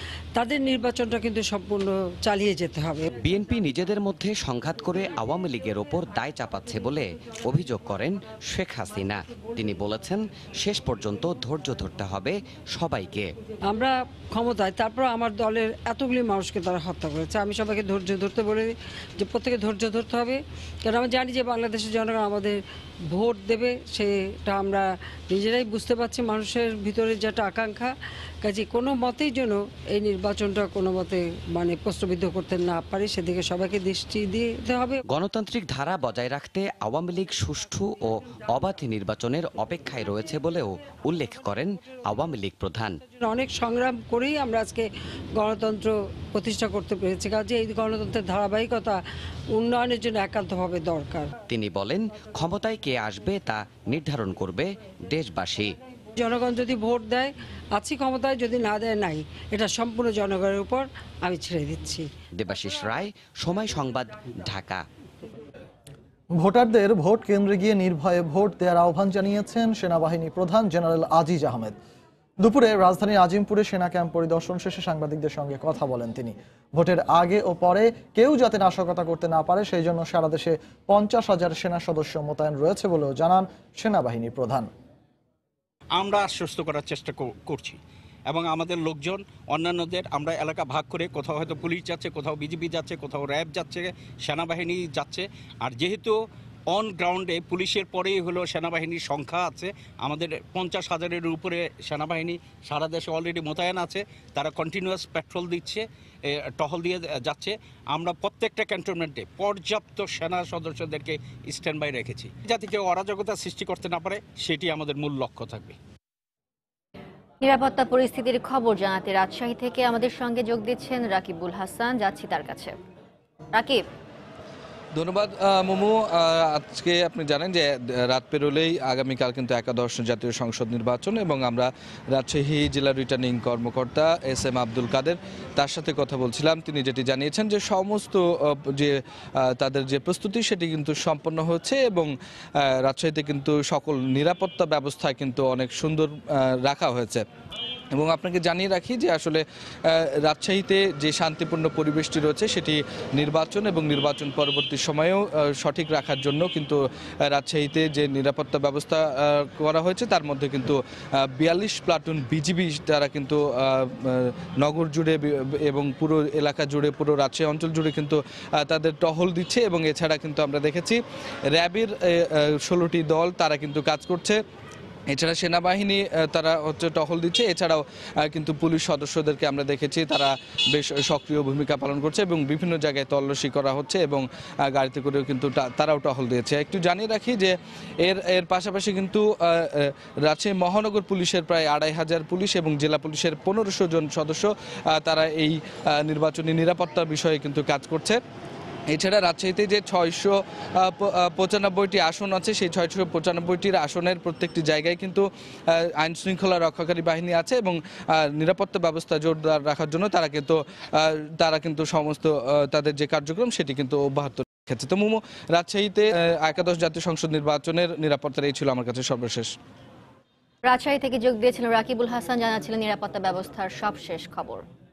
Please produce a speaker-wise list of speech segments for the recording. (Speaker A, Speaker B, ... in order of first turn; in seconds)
Speaker A: 0.4-3.1, 13.7-35.0, 43.2-49.0, 49.5-51.3, 56.2-62.1
Speaker B: 3.2-13.3, 35.1-43.0, 51.5-55.8, 62.4-64.8
Speaker C: 66.4-71.8, 72.4-84.7
Speaker D: 85.9-96.2, 96.7-115.8
Speaker E: 117.4-122.8, 123.5-123.8, 220.7-224.6
Speaker F: 124.9-147.2, 147.9-171.0, 171.5-174.4, 175.1-198.2, 198.9-219.5